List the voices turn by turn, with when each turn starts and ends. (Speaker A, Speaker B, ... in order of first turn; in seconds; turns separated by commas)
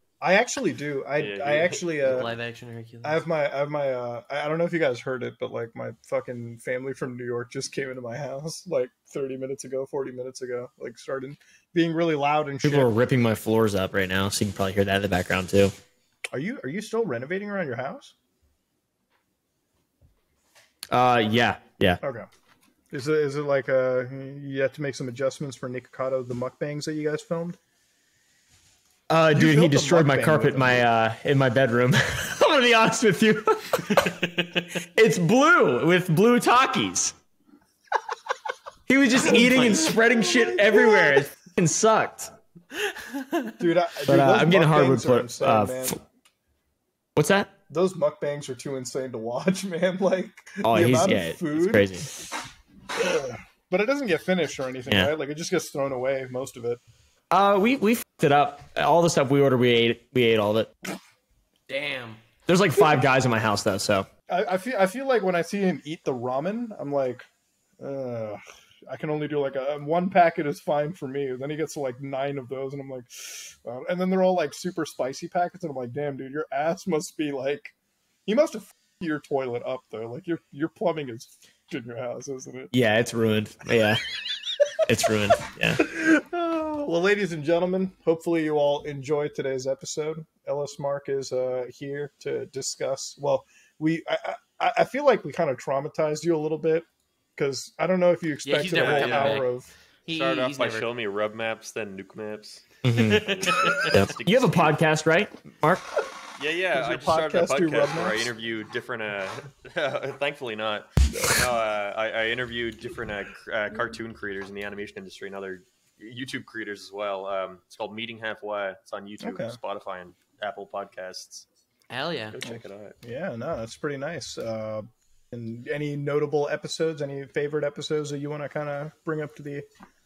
Speaker A: 0.2-2.3, Speaker B: 1.2-2.3, Speaker C: 2.0-3.2, Speaker A: 3.0-12.9, Speaker D: 12.6-15.7, Speaker A: 16.3-18.1, Speaker D: 20.9-22.0, Speaker A: 22.0-22.3, Speaker A: 22.9-27.6, Speaker D: 29.1-37.1, Speaker A: 29.3-30.9, Speaker C: 33.9-34.7, Speaker D: 38.9-42.4, Speaker A: 39.2-41.3, Speaker C: 39.3-39.9, Speaker C: 42.8-43.6, Speaker A: 43.6-46.0, Speaker D: 44.0-46.0, Speaker D: 47.2-47.5, Speaker A: 47.7-52.1, Speaker D: 50.6-52.1, Speaker A: 53.0-56.8, Speaker D: 54.9-55.1, Speaker D: 57.3-60.7, Speaker C: 61.7-62.2, Speaker D: 62.5-64.1, Speaker A: 64.3-67.3, Speaker A: 67.8-77.7, Speaker A: 78.3-82.7, Speaker D: 82.7-84.0, Speaker D: 84.9-85.8, Speaker A: 85.8-99.7, Speaker C: 98.5-99.5, Speaker B: 98.8-99.5, Speaker C: 100.1-100.9, Speaker B: 100.1-104.8, Speaker D: 102.8-103.3, Speaker C: 103.0-103.9, Speaker D: 103.9-105.8, Speaker B: 106.4-121.5, Speaker A: 106.7-108.3, Speaker A: 111.1-111.5, Speaker A: 119.2-119.6, Speaker C: 121.9-122.4, Speaker B: 122.3-123.0, Speaker A: 122.4-129.7